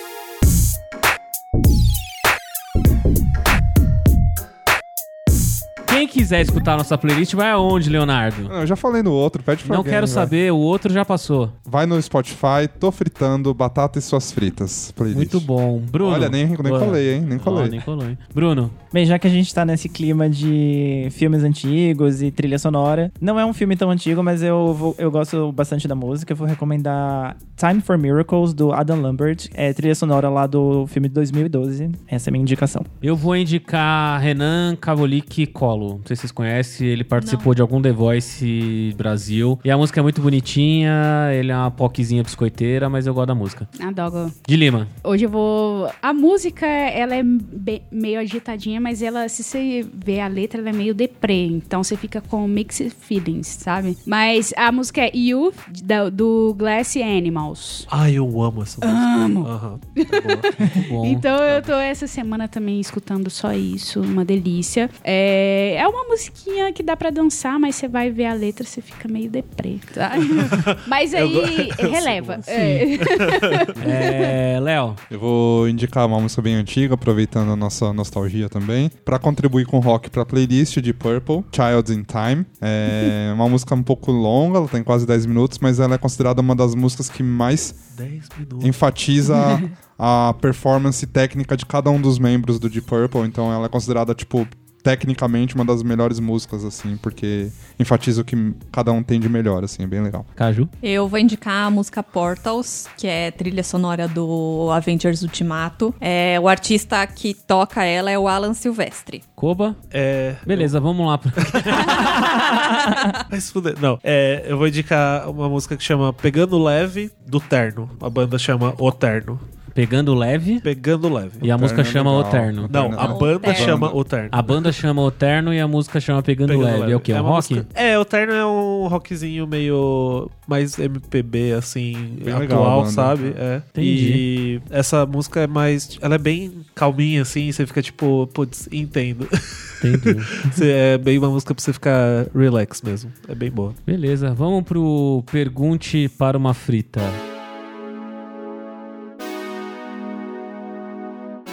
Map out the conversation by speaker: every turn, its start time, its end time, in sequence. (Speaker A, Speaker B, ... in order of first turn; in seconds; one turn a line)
Speaker A: 5.9-8.5
Speaker B: 8.5-10.3
Speaker A: 9.7-11.5
Speaker B: 11.7-15.5
Speaker A: 15.1-18.8
Speaker B: 16.0-17.8
Speaker C: 18.9-32.9
Speaker A: 33.0-43.7
Speaker D: 37.1-37.5
Speaker E: 43.8-44.4
Speaker A: 44.5-44.9
Speaker E: 45.0-57.9
Speaker F: 57.9-60.5
Speaker E: 58.8-74.4
Speaker A: 60.8-61.3
Speaker F: 70.4-73.7
Speaker A: 73.8-75.0
Speaker B: 75.1-87.8
Speaker F: 87.9-88.8
Speaker B: 88.6-100.3
Speaker A: 100.4-100.7
Speaker D: 100.8-109.2
Speaker A: 109.4-109.8
Speaker F: 109.9-110.7
Speaker A: 110.5-112.3
Speaker F: 111.4-112.6
Speaker D: 112.5-113.2
Speaker F: 113.3-119.4
Speaker A: 119.7-120.7
Speaker F: 120.6-121.5
Speaker A: 121.4-122.8
Speaker B: 121.4-124.0
Speaker F: 122.7-124.8
Speaker D: 123.0-123.8
Speaker A: 124.3-127.7
Speaker F: 126.5-143.8
Speaker B: 132.2-133.4
Speaker A: 133.8-134.2
Speaker A: 139.8-140.6
Speaker A: 143.9-147.2